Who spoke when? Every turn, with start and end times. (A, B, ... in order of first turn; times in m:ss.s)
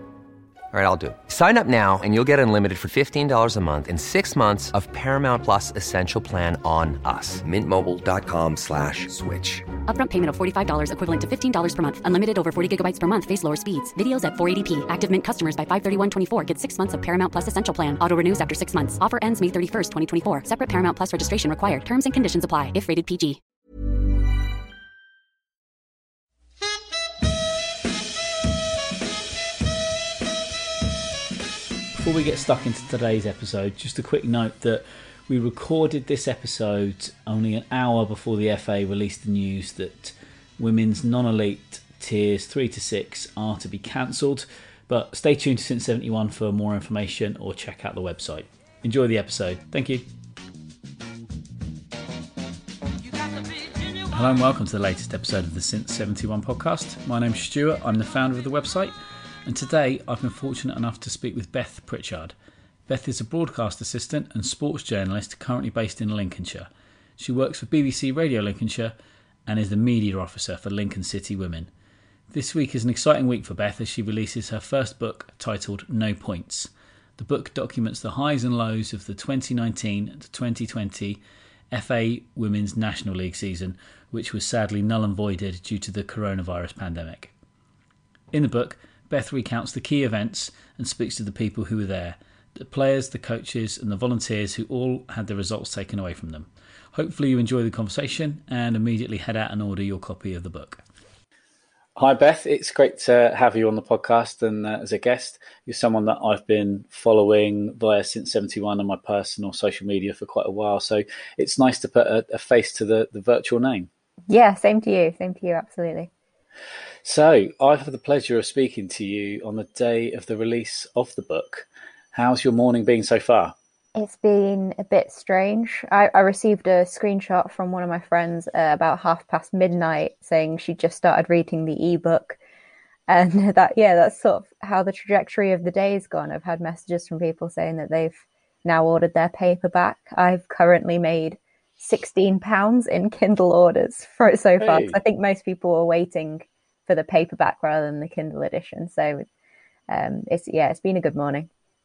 0:00.7-0:09.7 A
0:09.9-0:23.4 B
0:32.0-0:50.0 C
0:54.1-0:58.9 C
0:59.5-1:02.4 C
1:02.9-1:08.9 C
1:09.5-1:11.7 C
1:12.3-1:21.2 C
1:21.7-1:27.3 C
1:28.3-1:40.8 C
1:42.0-1:53.9 C
1:54.3-1:56.1 D
1:57.0-2:03.6 C
2:03.9-2:12.4 D
2:13.1-2:29.2 D
2:24.6-2:25.0 C
2:29.9-2:31.5 D